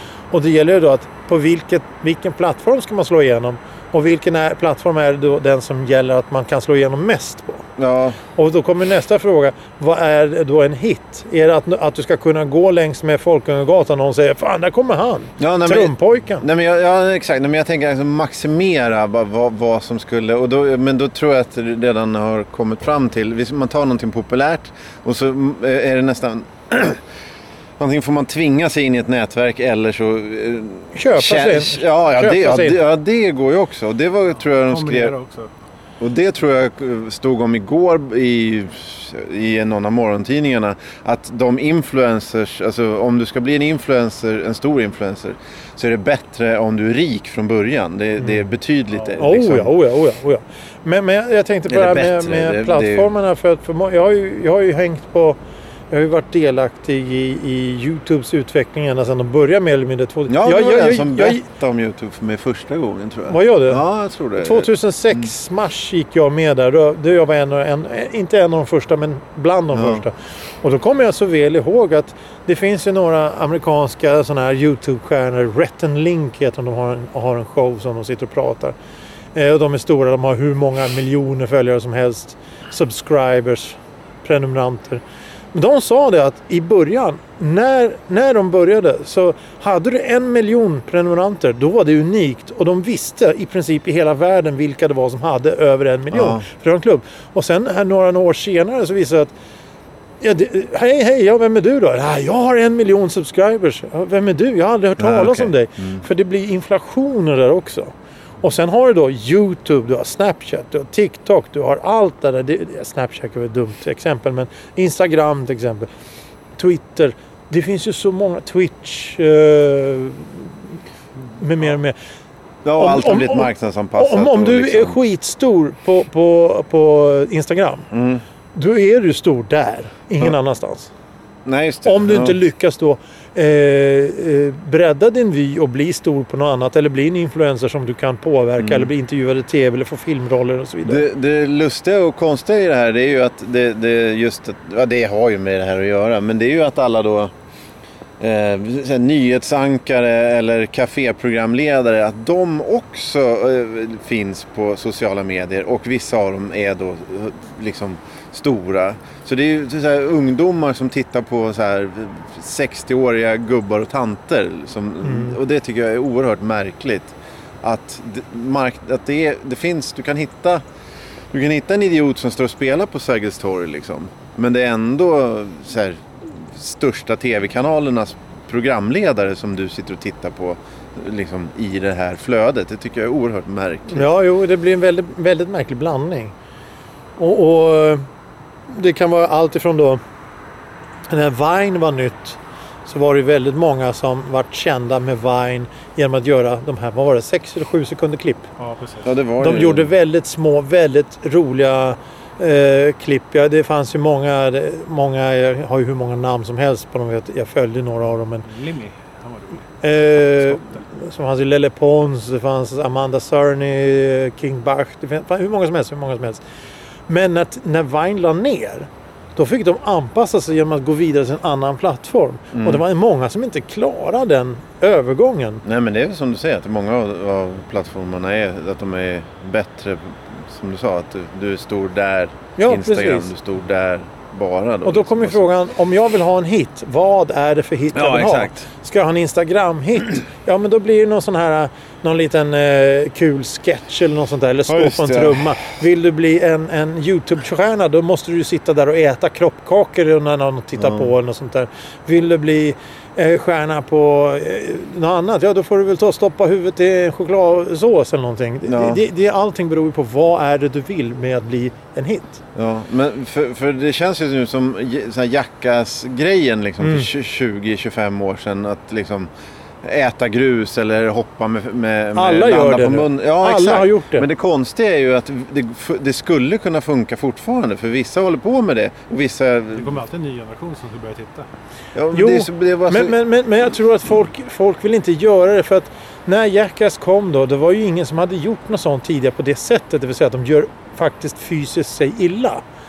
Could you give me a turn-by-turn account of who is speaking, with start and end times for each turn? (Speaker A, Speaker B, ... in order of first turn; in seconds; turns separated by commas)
Speaker A: 0.3-7.7, Speaker B: 7.8-8.2, Speaker A: 8.3-16.5, Speaker B: 15.4-27.0, Speaker B: 27.8-35.1, Speaker A: 30.9-32.8, Speaker C: 34.5-35.5, Speaker B: 36.0-49.7, Speaker A: 49.2-55.4, Speaker B: 51.7-53.1, Speaker A: 55.9-61.5, Speaker B: 60.3-65.3, Speaker A: 63.3-63.8, Speaker A: 64.4-78.8, Speaker B: 69.7-70.0, Speaker A: 79.3-85.0, Speaker A: 85.5-99.3, Speaker B: 96.1-96.4, Speaker A: 100.2-115.9, Speaker B: 105.0-106.0, Speaker A: 116.6-120.5, Speaker A: 121.4-122.0, Speaker B: 122.7-125.0, Speaker A: 122.8-127.9, Speaker B: 127.9-128.2, Speaker A: 128.6-130.9, Speaker B: 131.4-132.4, Speaker A: 131.8-141.0, Speaker B: 138.6-138.9, Speaker B: 140.9-147.3, Speaker B: 148.2-170.6, Speaker A: 165.1-165.4, Speaker B: 171.3-184.1, Speaker A: 183.9-186.3, Speaker A: 187.2-188.0, Speaker A: 188.7-190.0, Speaker A: 191.1-198.4, Speaker C: 198.6-199.1, Speaker B: 199.0-199.9, Speaker A: 199.4-208.5, Speaker C: 208.4-209.7, Speaker A: 209.8-216.4, Speaker C: 210.4-210.8, Speaker A: 217.1-225.6, Speaker B: 222.5-222.8, Speaker B: 225.6-235.4, Speaker A: 232.6-233.3, Speaker A: 234.8-262.4, Speaker B: 237.9-238.7, Speaker B: 244.7-245.5, Speaker B: 250.8-251.1, Speaker B: 258.7-259.0, Speaker B: 262.6-269.3, Speaker B: 269.8-280.0, Speaker A: 272.2-274.3, Speaker C: 279.8-281.5, Speaker B: 281.9-283.1, Speaker A: 282.1-292.6